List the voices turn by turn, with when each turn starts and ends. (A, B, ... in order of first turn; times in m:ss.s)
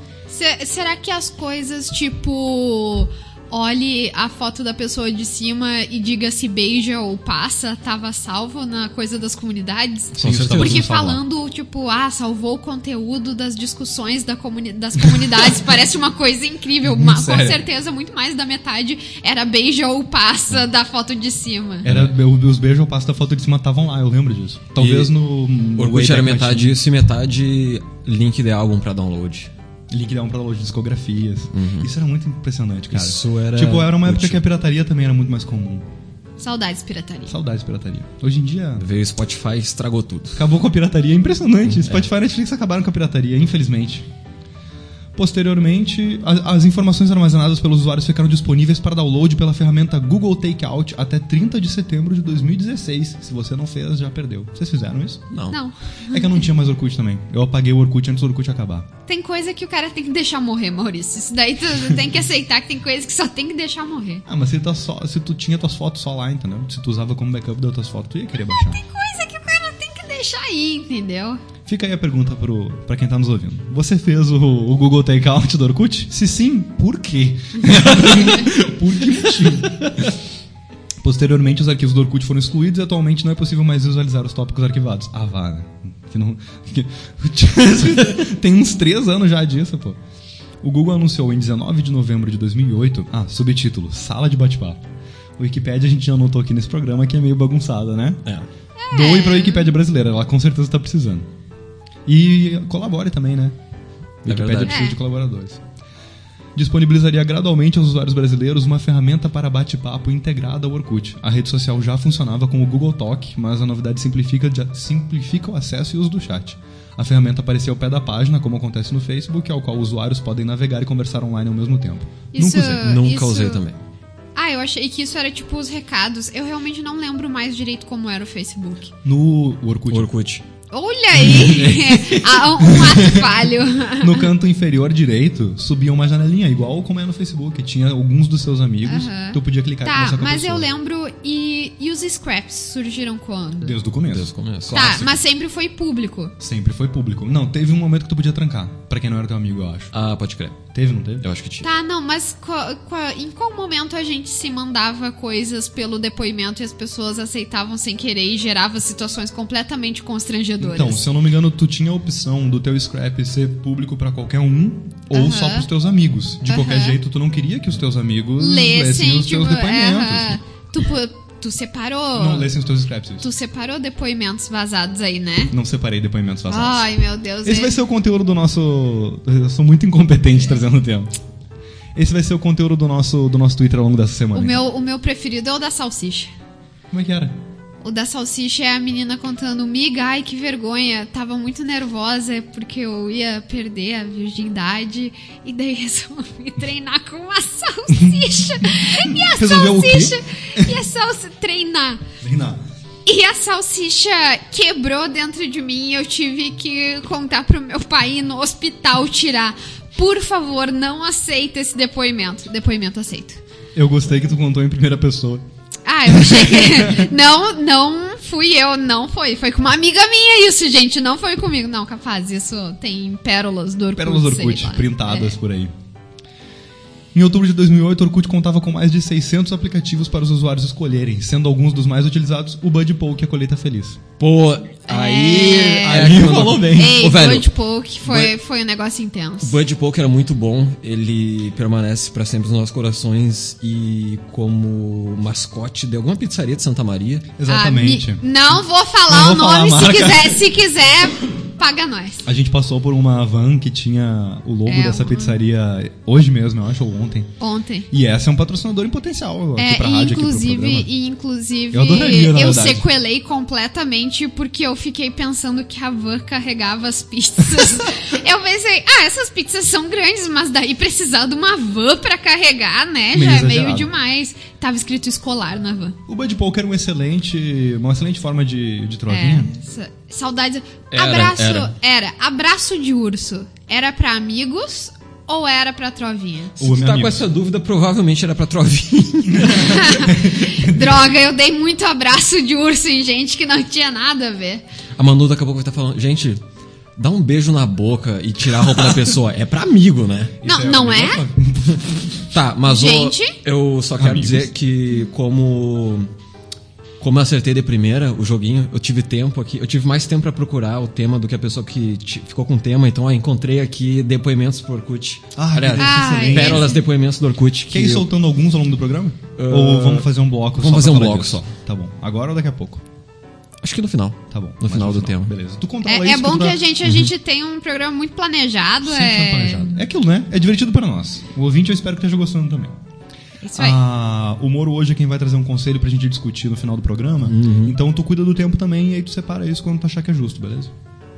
0:00.3-0:21.9 A
0:10.2-0:10.9 B
0:10.2-0:11.2 C
0:16.8-0:17.6 C
0:21.8-0:22.1 B
0:21.8-0:26.8 C
0:24.8-0:25.1 B
0:25.8-0:29.5 B
0:29.9-0:35.8 C
0:31.5-0:31.9 B
0:32.9-0:34.4 B
0:36.4-0:37.4 A
0:37.3-0:38.8 C
0:38.8-0:40.4 B
0:40.4-0:44.1 C
0:41.7-0:42.0 B
0:45.1-0:55.2 C
0:55.3-0:55.6 B
0:55.5-0:56.4 A
0:56.1-0:58.9 C
0:59.1-1:04.2 A
1:04.3-1:08.8 C
1:08.5-1:11.4 A
1:11.6-1:20.1 C
1:21.0-1:30.0 C
1:30.6-1:34.8 C
1:35.4-1:38.2 C
1:38.8-1:39.7 A
1:38.9-1:41.3 C
1:42.0-1:43.6 C
1:44.2-1:45.6 C
1:44.2-1:44.8 B
1:44.7-1:45.0 A
1:46.5-2:02.8 C
2:02.3-2:03.6 A
2:02.8-2:03.8 B
2:04.3-2:08.9 A
2:09.0-2:10.1 C
2:09.9-2:10.4 B
2:10.7-2:14.3 A
2:11.2-2:12.7 B
2:12.7-2:13.4 C
2:14.0-2:20.7 C
2:18.8-2:23.8 A
2:23.6-2:25.2 C
2:24.1-2:25.1 B
2:24.7-2:26.3 A
2:26.4-2:29.9 C
2:29.9-2:30.6 B
2:30.7-2:31.2 C
2:31.2-2:31.7 B
2:31.6-2:41.1 A
2:40.6-2:50.4 C
2:45.1-2:45.7 A
2:46.4-2:47.0 A
2:48.4-2:52.5 A
2:52.1-2:53.3 C
2:53.2-2:55.5 A
2:55.5-2:56.9 C
2:56.5-2:57.8 A
2:57.4-3:01.1 C
3:01.9-3:04.6 C
3:04.3-3:06.3 A
3:06.9-3:07.4 C
3:07.8-3:22.0 A
3:17.9-3:18.2 C
3:19.0-3:20.7 C
3:22.2-3:22.6 C
3:23.0-3:33.4 A
3:33.7-3:35.4 C
3:35.8-3:45.4 A
3:36.1-3:37.1 C
3:44.0-3:45.7 C
3:47.1-3:54.0 C
3:54.2-3:57.5 B
3:54.9-3:59.6 A
3:55.8-3:57.1 C
3:58.0-3:58.3 B
3:59.4-4:07.3 B
4:07.4-4:08.2 C
4:07.5-4:12.3 A
4:09.1-4:10.5 C
4:12.2-4:17.3 C
4:14.6-4:15.4 A
4:17.4-4:17.9 A
4:17.9-4:20.9 C
4:19.6-4:36.0 A
4:21.7-4:22.8 C
4:27.5-4:27.8 C
4:33.1-4:33.9 C
4:36.1-4:39.5 C
4:39.1-4:46.6 A
4:40.9-4:41.7 B
4:46.6-4:47.3 C
4:46.6-4:49.7 B
4:49.3-4:51.1 C
4:49.5-4:54.6 A
4:55.0-4:56.4 B
4:57.0-5:00.3 B
5:00.4-5:02.3 C
5:00.4-5:01.2 A
5:02.3-5:06.1 B
5:02.6-5:03.4 A
5:04.0-5:04.5 C
5:07.0-5:18.1 B
5:15.4-5:16.8 C
5:15.8-5:16.8 A
5:17.7-5:22.8 C
5:19.4-5:21.5 B
5:23.6-5:25.3 B
5:24.3-5:26.6 C
5:25.8-5:29.8 A
5:26.8-5:27.1 B
5:28.8-5:32.7 C
5:33.4-5:33.8 A
5:33.6-5:40.7 C
5:37.2-5:37.8 B